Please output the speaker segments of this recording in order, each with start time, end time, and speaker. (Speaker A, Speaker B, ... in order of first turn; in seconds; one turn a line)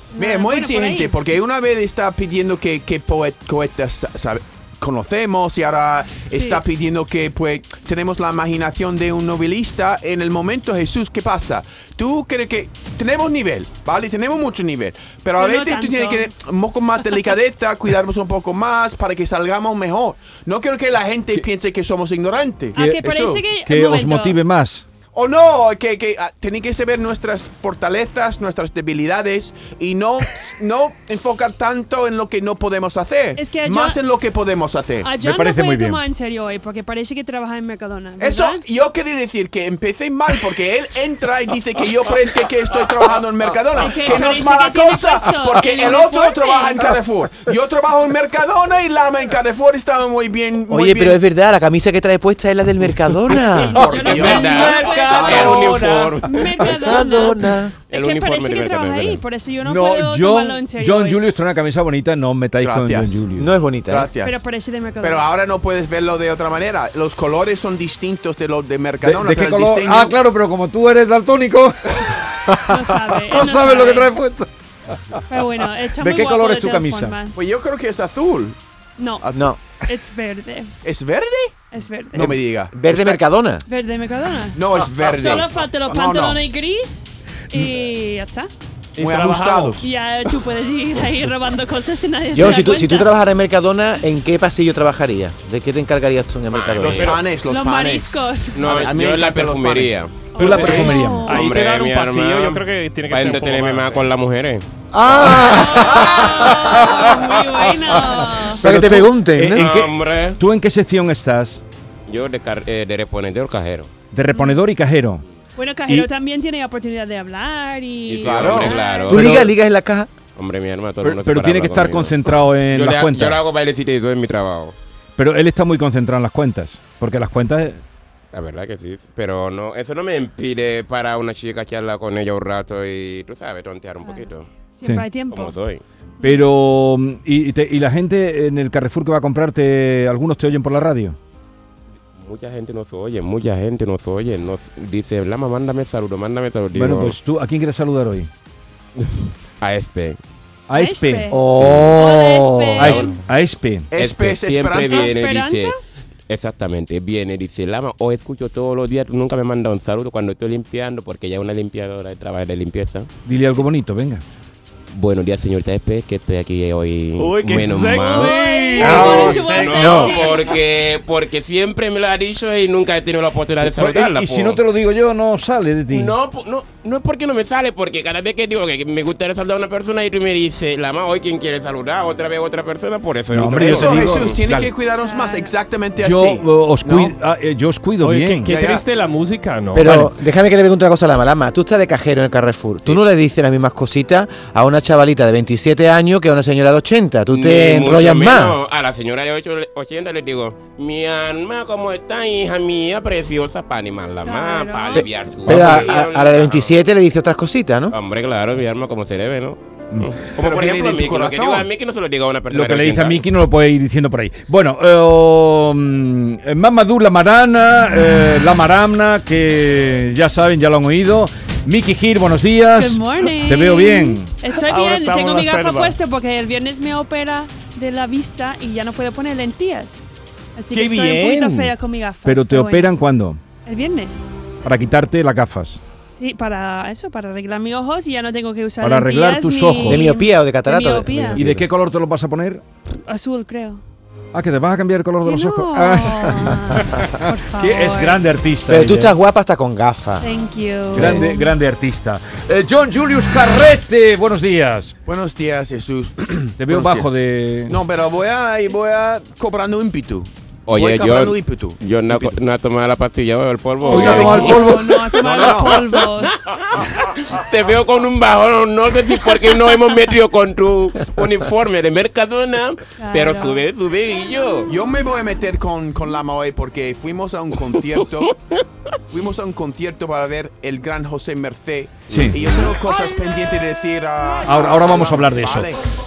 Speaker A: 0.1-1.2
Speaker B: 0.2-23.4
Speaker A: 6.3-6.6
Speaker A: 15.4-16.3
Speaker A: 22.8-24.4
Speaker C: 22.8-24.8
Speaker B: 25.1-35.1
Speaker A: 33.4-34.0
Speaker A: 35.0-38.6
Speaker C: 35.2-36.0
Speaker B: 38.2-51.2
Speaker A: 43.8-46.9
Speaker D: 50.7-53.9
Speaker A: 53.5-61.2
Speaker B: 53.7-56.2
Speaker E: 53.8-56.7
Speaker F: 54.1-56.2
Speaker D: 56.6-57.7
Speaker E: 57.9-59.2
Speaker C: 59.6-63.5
Speaker B: 62.6-63.2
Speaker D: 63.4-64.1
Speaker B: 63.9-64.4
Speaker A: 64.2-65.3
Speaker B: 65.0-70.2
Speaker C: 69.0-74.5
Speaker A: 72.6-74.1
Speaker C: 75.1-77.2
Speaker A: 75.3-77.4
Speaker B: 77.3-78.6
Speaker A: 79.0-80.7
Speaker B: 79.2-79.5
Speaker D: 79.3-79.6
Speaker B: 80.8-83.2
Speaker A: 81.7-82.4
Speaker D: 82.2-83.6
Speaker A: 83.7-88.5
Speaker B: 84.5-86.4
Speaker F: 88.9-89.8
Speaker B: 89.0-89.8
Speaker A: 89.8-93.1
Speaker D: 92.3-97.2
Speaker E: 96.5-97.2
Speaker F: 96.8-97.2
Speaker B: 97.0-100.9
Speaker A: 97.4-98.7
Speaker E: 98.5-100.3
Speaker A: 100.3-101.4
Speaker C: 100.3-101.3
Speaker F: 100.4-104.0
Speaker E: 101.3-105.9
Speaker D: 104.9-107.2
Speaker A: 105.5-108.6
Speaker C: 108.4-111.6
Speaker D: 108.6-109.7
Speaker E: 109.5-110.4
Speaker E: 112.1-113.9
Speaker C: 114.1-115.2
Speaker A: 114.3-114.6
Speaker A: 115.5-119.3
Speaker E: 118.1-119.5
Speaker B: 118.2-118.8
Speaker D: 119.1-120.1
Speaker E: 120.3-124.8
Speaker C: 121.0-123.4
Speaker C: 125.2-127.8
Speaker E: 128.3-134.5
Speaker A: 134.0-135.6
Speaker E: 135.3-135.8
Speaker C: 136.2-141.2
Speaker E: 142.2-147.2
Speaker C: 146.7-148.3
Speaker E: 149.0-150.2
Speaker C: 150.7-151.3
Speaker A: 150.7-153.2
Speaker D: 151.3-153.1
Speaker E: 151.6-152.1
Speaker C: 152.8-153.9
Speaker B: 153.9-155.2
Speaker E: 153.9-155.7
Speaker A: 154.8-155.8
Speaker E: 156.3-163.1
Speaker C: 163.2-164.2
Speaker E: 164.9-174.6
Speaker F: 167.2-169.2
Speaker C: 168.2-170.2
Speaker A: 168.2-170.6
Speaker D: 169.7-170.2
Speaker C: 173.6-176.1
Speaker E: 175.9-184.4
Speaker C: 183.3-184.7
Speaker B: 183.6-187.1
Speaker A: 184.9-185.5
Speaker C: 186.0-188.6
Speaker F: 188.0-189.9
Speaker B: 188.5-188.8
Speaker D: 189.7-198.6
Speaker C: 189.8-190.1
Speaker E: 197.3-206.8
Speaker A: 204.2-205.2
Speaker D: 205.4-207.9
Speaker C: 205.4-205.8
Speaker E: 207.9-213.2
Speaker B: 210.3-211.7
Speaker C: 212.5-224.3
Speaker A: 222.7-230.0
Speaker F: 224.5-226.0
Speaker A: 230.6-232.9
Speaker F: 230.7-231.7
Speaker C: 232.2-233.4
Speaker A: 233.6-234.2
Speaker C: 234.6-235.8
Speaker A: 236.1-241.4
Speaker C: 238.8-240.1
Speaker D: 239.8-241.5
Speaker C: 241.3-242.6
Speaker A: 243.0-243.8
Speaker C: 244.3-249.1
Speaker A: 245.2-248.3
Speaker D: 248.7-250.3
Speaker A: 250.2-251.5
Speaker C: 250.9-254.9
Speaker B: 255.1-257.1
Speaker C: 256.6-257.8
Speaker B: 257.6-262.4
Speaker E: 260.7-274.7
Speaker C: 263.9-264.6
Speaker B: 263.9-265.9
Speaker A: 263.9-266.5
Speaker A: 273.0-273.6
Speaker B: 274.7-278.4
Speaker B: 279.1-285.8
Speaker E: 282.1-282.7
Speaker C: 282.1-282.4
Speaker C: 284.4-285.7